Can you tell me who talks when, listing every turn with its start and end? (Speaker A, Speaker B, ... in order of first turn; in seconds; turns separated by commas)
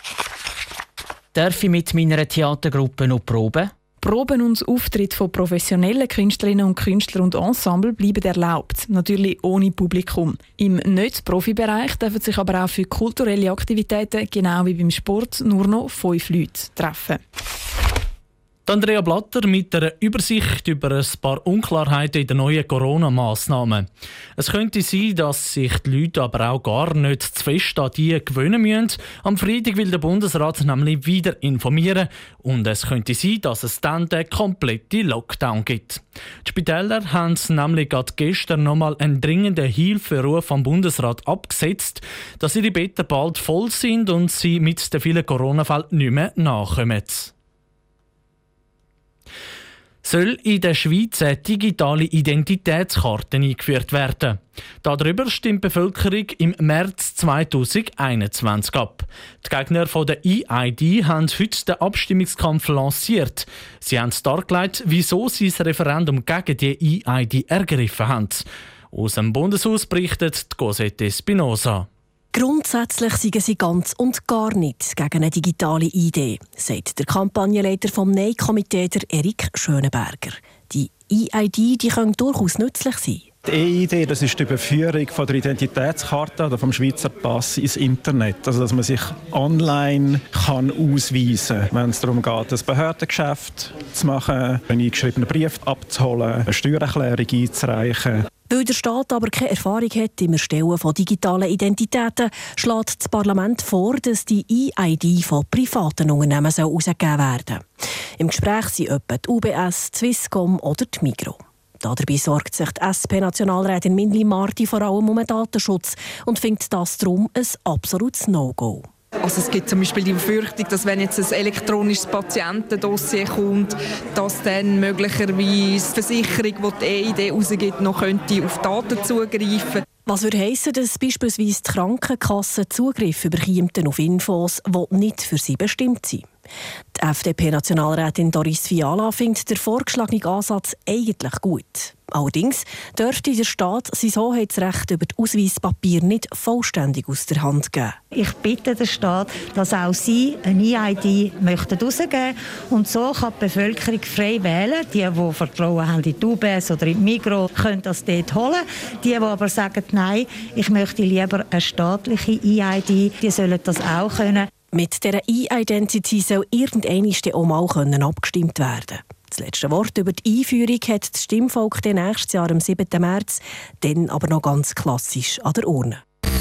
Speaker A: 1.3-3.7, Speaker B: 4.0-17.2, Speaker C: 18.6-47.3, Speaker C: 50.0-71.9, Speaker D: 72.3-83.3, Speaker E: 83.5-98.2, Speaker D: 98.5-107.6, Speaker D: 108.2-118.9, Speaker F: 119.2-129.8, Speaker D: 130.1-136.2, Speaker D: 136.9-148.0, Speaker G: 148.1-164.4, Speaker D: 164.7-176.0